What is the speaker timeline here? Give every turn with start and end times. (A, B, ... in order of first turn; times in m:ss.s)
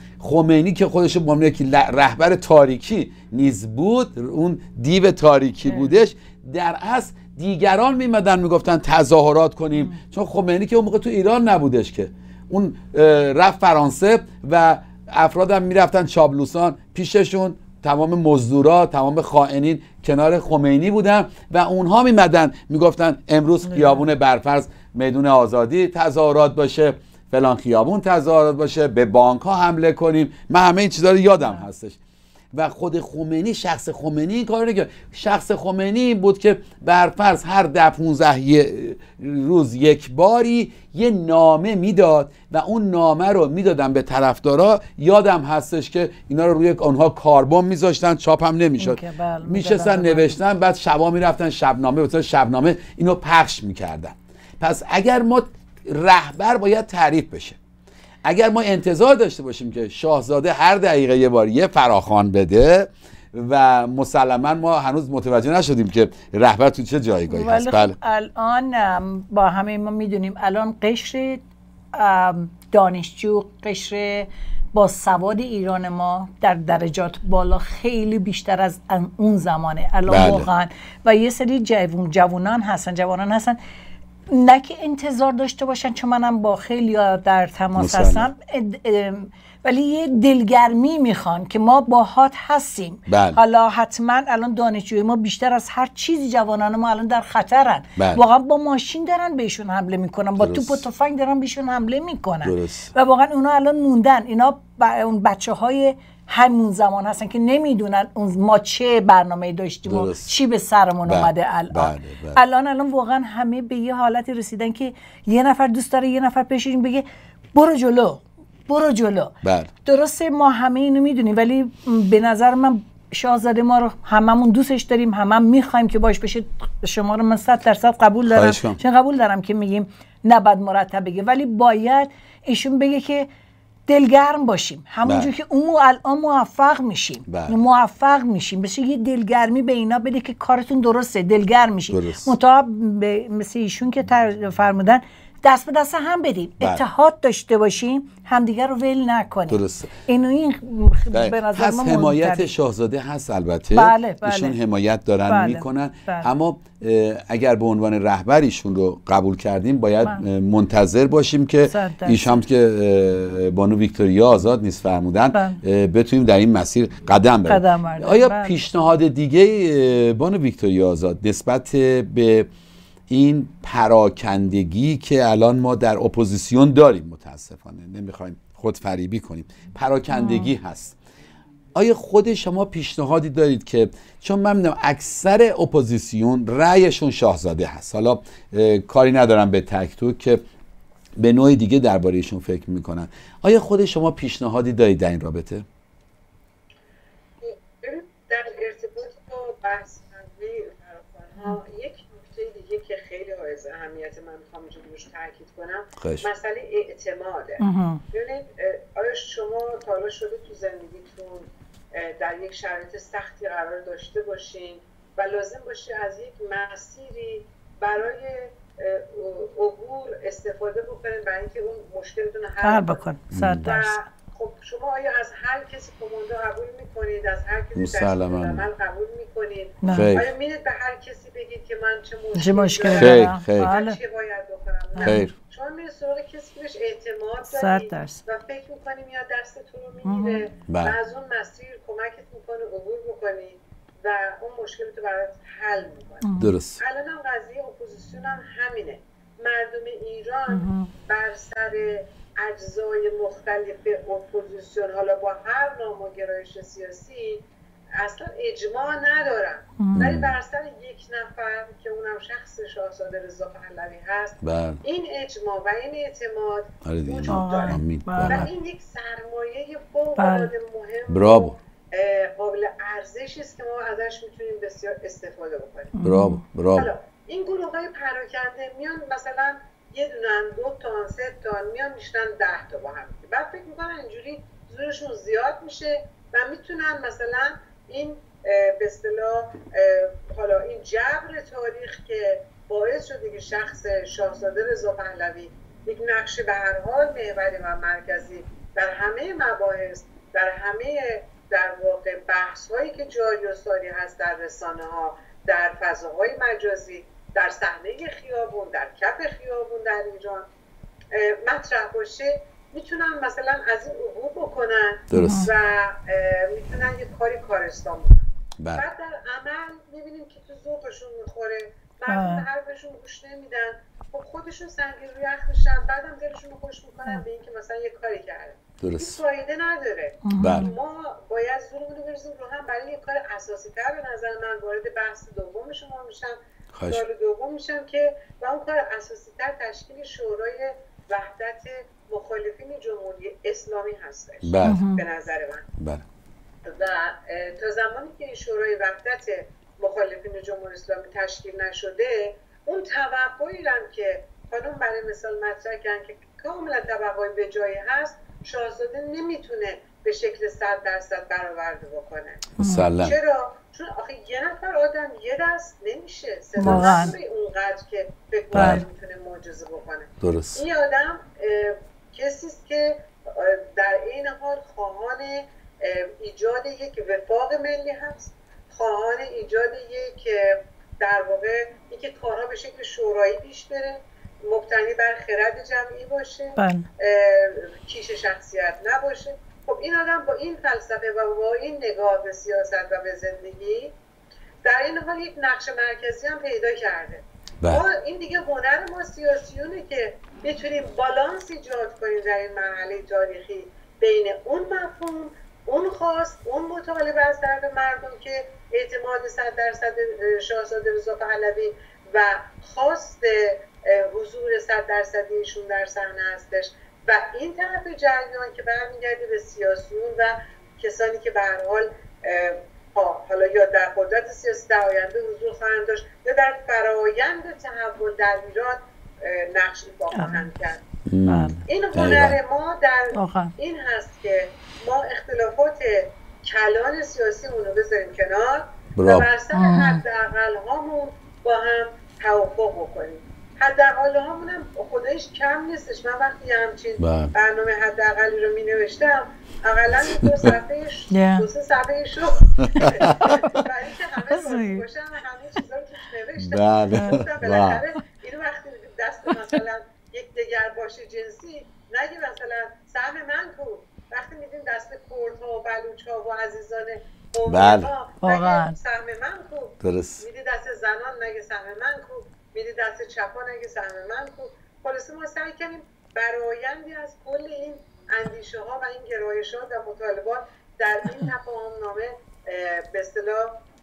0:00.2-0:32.0 A
0:05.6-0:05.9 B
0:23.6-0:24.1 B
0:32.5-0:57.6 A
0:48.8-0:50.4 B
0:58.2-1:08.0 A
1:07.3-1:23.6 B
1:20.1-1:20.5 A
1:24.3-1:59.3 B
1:27.8-1:28.3 A
1:33.1-1:33.4 A
1:40.4-1:40.8 A
1:42.4-1:42.9 A
1:49.8-1:50.3 A
1:51.1-1:52.4 A
1:59.4-1:59.7 A
1:59.8-2:13.3 B
2:08.3-2:08.8 A
2:13.9-2:32.5 B
2:15.0-2:15.3 A
2:17.3-2:17.6 A
2:21.9-2:22.3 A
2:29.5-2:29.9 A
2:31.1-2:52.5 A
2:33.7-2:34.6 B
2:35.3-2:36.3 B
2:41.6-2:42.4 B
2:45.3-2:45.6 B
2:47.5-2:48.6 B
2:53.1-3:01.0 A
3:00.1-3:00.5 B
3:01.8-3:10.4 A
3:11.2-3:15.7 A
3:17.4-3:43.0 C
3:26.0-3:26.3 A
3:27.6-3:28.0 B
3:42.6-3:44.0 B
3:43.3-3:43.7 A
3:43.6-4:17.4 C
3:47.8-3:48.7 A
3:49.8-3:50.1 B
3:49.9-3:50.3 A
3:52.4-3:54.0 B
3:53.0-3:53.7 A
3:55.0-3:55.2 B
3:55.0-3:55.4 A
3:57.5-3:58.2 B
4:00.0-4:00.4 B
4:00.7-4:01.0 A
4:06.2-4:06.5 B
4:06.4-4:06.8 A
4:10.5-4:10.9 B
4:18.0-4:35.9 C
4:19.8-4:20.0 B
4:20.0-4:20.4 A
4:24.4-4:24.8 A
4:26.8-4:28.5 A
4:27.3-4:28.5 B
4:30.2-4:30.5 B
4:31.1-4:31.6 A
4:35.9-4:36.4 B
4:36.0-4:36.9 A
4:36.8-5:10.5 C
5:11.1-5:45.6 C
5:15.1-5:15.5 A
5:15.1-5:15.5 B
5:18.6-5:18.8 A
5:22.1-5:22.4 B
5:28.8-5:29.2 A
5:30.2-5:30.7 B
5:30.4-5:30.7 A
5:36.7-5:37.0 A
5:44.4-5:44.8 A
5:44.6-5:45.0 B
5:45.8-5:46.0 A
5:46.7-6:33.9 C
6:02.6-6:03.2 A
6:02.6-6:02.9 B
6:06.6-6:07.2 B
6:06.6-6:07.0 A
6:08.5-6:08.8 A
6:08.6-6:08.8 B
6:10.2-6:10.6 A
6:26.6-6:26.9 B
6:34.6-7:10.8 C
7:10.1-7:10.5 B
7:11.1-7:12.4 A
7:11.3-7:11.6 B
7:11.7-8:03.6 C
7:13.1-7:13.5 B
7:19.0-7:19.3 A
7:19.5-7:20.0 B
7:27.0-7:27.3 A
7:30.2-7:30.5 A
7:31.1-7:31.5 B
7:32.6-7:33.2 A
7:33.0-7:33.6 B
7:34.3-7:34.8 B
7:36.4-7:37.8 A
7:47.5-7:47.9 A
7:48.2-7:48.8 B
7:49.8-7:50.2 A